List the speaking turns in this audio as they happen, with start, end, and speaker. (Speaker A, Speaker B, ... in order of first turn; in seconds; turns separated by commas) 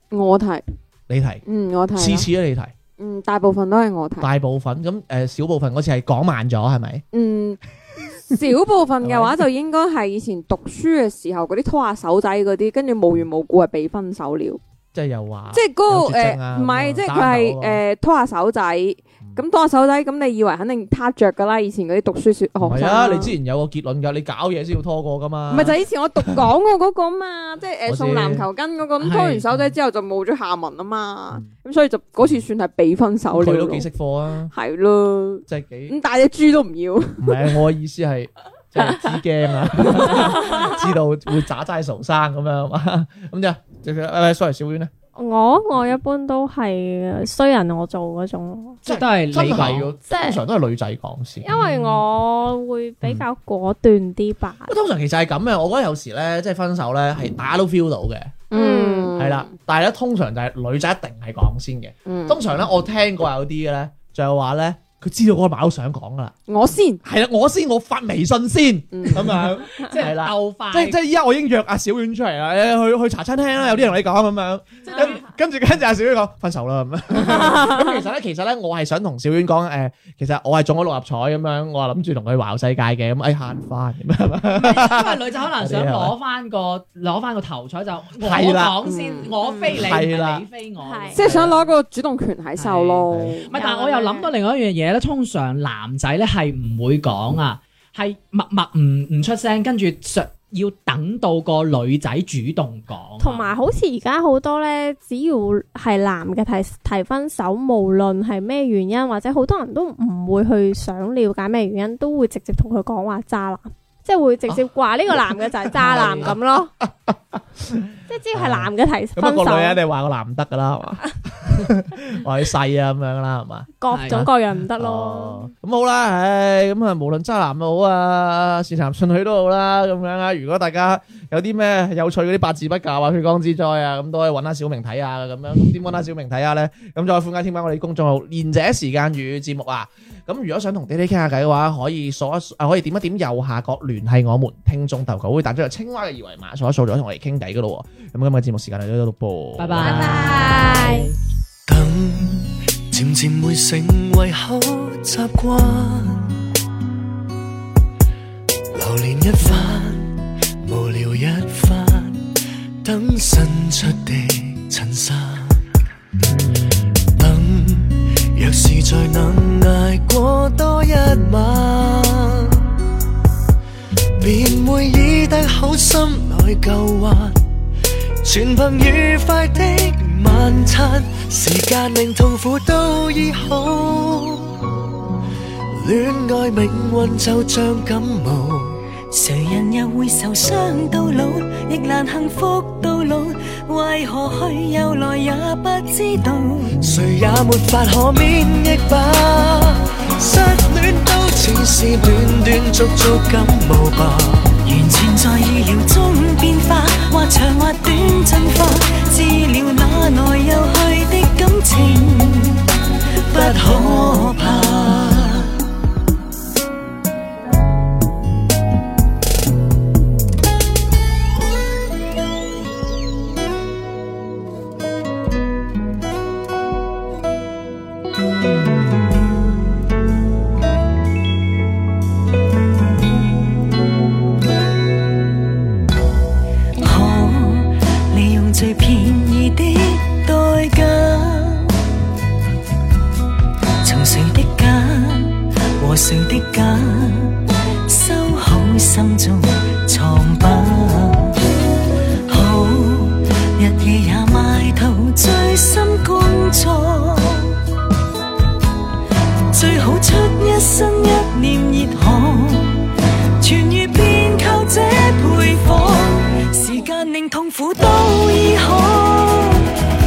Speaker A: 0.1-0.6, Speaker B: 1.1-2.7, Speaker A: 1.4-2.3, Speaker A: 3.0-4.3, Speaker B: 4.2-7.0, Speaker A: 7.1-7.6, Speaker A: 8.2-14.6, Speaker B: 9.0-9.5, Speaker B: 14.9-17.8, Speaker A: 15.5-23.3, Speaker B: 22.6-26.4, Speaker A: 25.5-33.9, Speaker B: 27.9-28.5, Speaker C: 29.0-29.4, Speaker B: 33.3-34.5, Speaker A: 34.5-37.5, Speaker B: 35.5-36.0, Speaker B: 37.2-44.9, Speaker D: 45.2-48.8, Speaker B: 48.9-51.5, Speaker C: 48.9-49.9, Speaker D: 50.1-50.4, Speaker D: 51.4-54.7, Speaker C: 51.5-52.0, Speaker B: 54.7-58.4, Speaker A: 58.5-59.5, Speaker D: 58.5-59.1, Speaker B: 59.2-66.3, Speaker A: 62.1-62.5, Speaker A: 66.5-67.0, Speaker B: 67.0-86.1, Speaker A: 68.9-69.5, Speaker C: 69.8-71.0, Speaker C: 74.8-75.2, Speaker C: 84.5-91.7, Speaker B: 88.2-88.9, Speaker A: 88.8-89.4, Speaker D: 89.4-89.7, Speaker B: 89.6-90.4, Speaker D: 90.8-91.2, Speaker A: 91.1-93.5, Speaker C: 92.6-103.6, Speaker B: 93.1-93.4, Speaker D: 93.5-94.3, Speaker D: 103.2-116.7, Speaker B: 115.7-150.1, Speaker C: 115.9-116.3, Speaker D: 118.1-119.8, Speaker D: 123.8-125.5, Speaker C: 123.9-124.3, Speaker C: 149.6-151.1, Speaker A: 149.8-150.8, Speaker D: 149.8-151.1, Speaker E: 151.7-156.3, Speaker E: 158.7-162.3, Speaker E: 162.8-165.6, Speaker E: 167.1-172.7, Speaker E: 174.2-177.4, Speaker E: 178.2-184.5, Speaker E: 185.7-188.8, Speaker F: 189.1-196.8, Speaker E: 196.8-204.6, Speaker F: 204.7-212.6, Speaker F: 213.3-215.4, Speaker E: 213.3-215.4, Speaker F: 236.8-241.8, Speaker F: 243.8-251.4, Speaker F: 252.3-257.6, Speaker F: 259.5-269.7